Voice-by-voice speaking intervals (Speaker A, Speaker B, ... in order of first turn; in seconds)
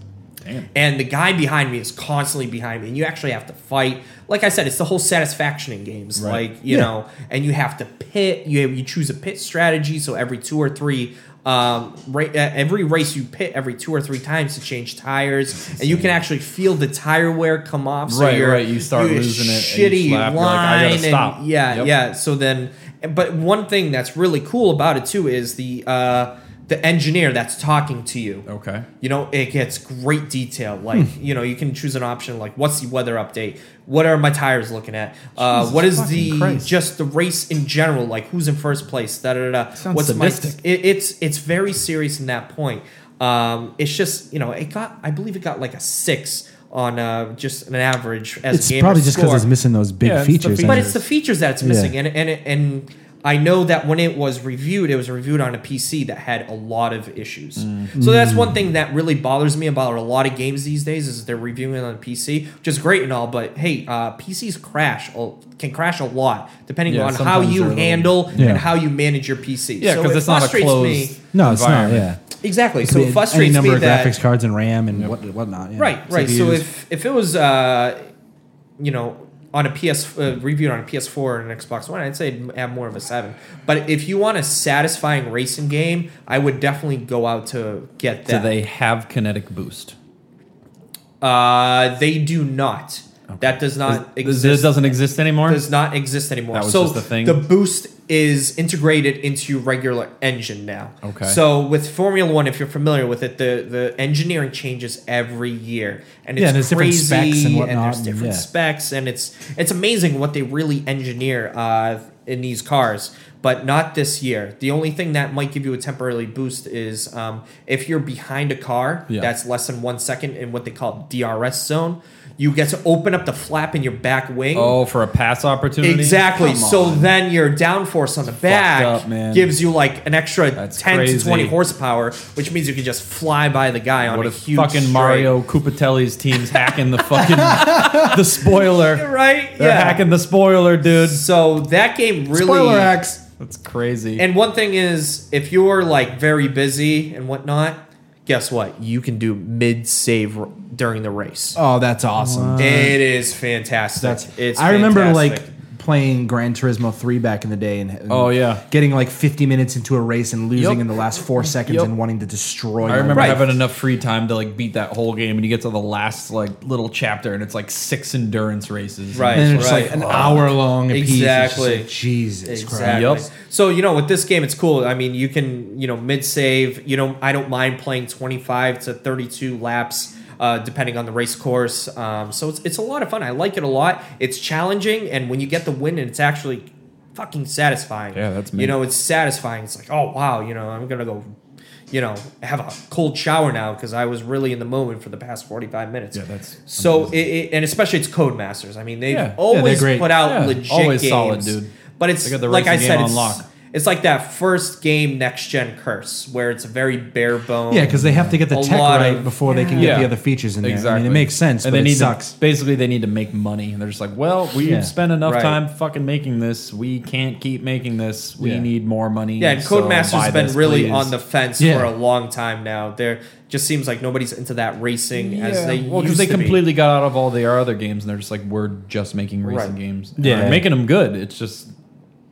Speaker A: 0.4-0.7, 6.2-6.4, 18.1-21.9, 28.5-28.9, 35.4-36.7, 39.8-40.6, 50.0-51.0, 57.6-57.9, 66.9-68.6, 69.8-72.1, 88.3-90.0, 93.3-95.6, 96.5-97.5, 101.0-101.4, 124.5-127.1, 128.4-129.5, 130.6-131.6, 134.1-141.2, 143.2-144.3, 152.2-153.0, 158.1-158.6, 160.6-161.9, 162.8-170.5, 172.8-173.3, 188.1-188.8, 196.1-197.2, 199.1-199.4, 200.2-201.7, 202.2-203.4, 207.9-208.4, 209.8-221.1, 225.1-231.7
Speaker B: 0.7-28.5, 29.0-49.5, 50.6-71.2, 72.4-74.1, 75.8-78.1, 78.8-88.5, 91.2-124.8, 125.8-135.3, 136.5-136.8, 137.4-140.1, 140.8-143.0, 144.2-151.6, 152.6-155.5, 163.1-163.5, 169.1-171.9, 172.5-191.3, 191.9-208.0, 208.5-210.1, 215.2-215.6, 219.4-226.7, 229.4-229.7
Speaker C: 48.5-50.9, 51.6-51.9, 58.0-58.6, 68.3-68.7, 71.3-72.2, 72.8-76.6, 106.4-108.5, 137.4-138.1, 142.4-143.2, 151.6-153.0, 154.0-163.4, 169.3-173.1, 199.5-200.2, 207.7-212.3, 214.6-214.9, 218.4-218.7, 221.6-221.9, 230.2-230.7